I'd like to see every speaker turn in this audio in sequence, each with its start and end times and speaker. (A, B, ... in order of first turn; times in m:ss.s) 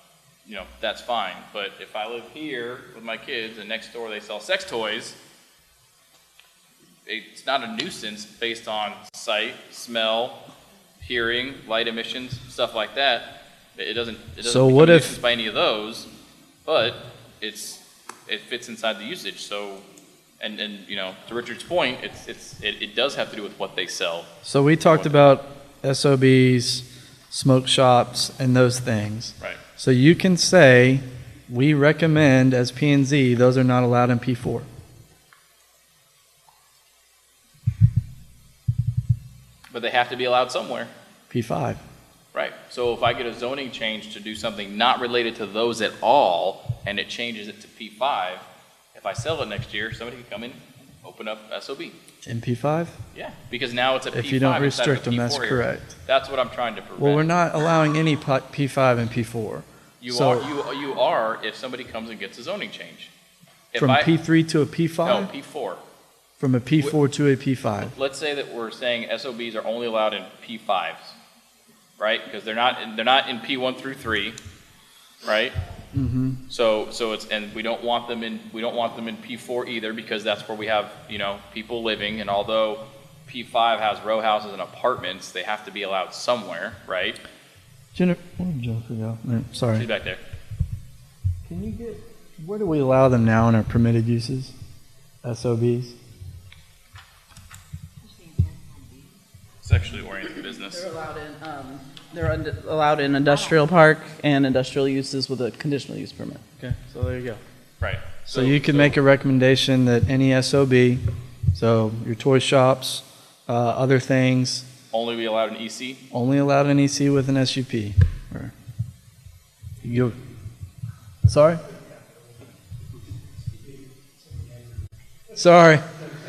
0:00.5-0:05.2 A
0:07.1-0:10.4 A
0:11.0-0:16.1 A
0:14.4-0:15.2 B
0:16.6-0:19.8 A
0:20.4-0:25.4 A
0:24.4-0:34.7 B
0:39.7-0:40.9 A
0:41.3-0:41.8 B
0:42.3-0:52.0 A
0:52.3-0:53.0 B
0:53.1-0:57.2 A
0:54.1-0:56.0 B
0:57.0-1:00.5 B
1:00.0-1:03.1 A
1:03.7-1:04.1 A
1:03.8-1:05.3 B
1:05.0-1:05.8 A
1:06.4-1:07.9 B
1:07.8-1:11.1 A
1:12.0-1:14.4 A
1:15.2-1:15.6 A
1:15.9-1:16.4 B
1:16.5-1:27.2 A
1:28.0-1:29.9 B
1:29.7-1:30.2 A
1:31.5-1:34.5 B
1:35.2-1:36.0 B
1:38.2-1:39.0 C
1:39.6-1:40.8 A
1:40.7-1:46.5 C
1:46.6-1:47.4 B
1:47.8-1:49.0 A
1:48.3-1:54.7 B
1:54.9-1:56.0 A
1:56.1-1:58.5 B
1:59.8-2:00.2 B
2:01.2-2:01.6 B
2:05.4-2:05.8 B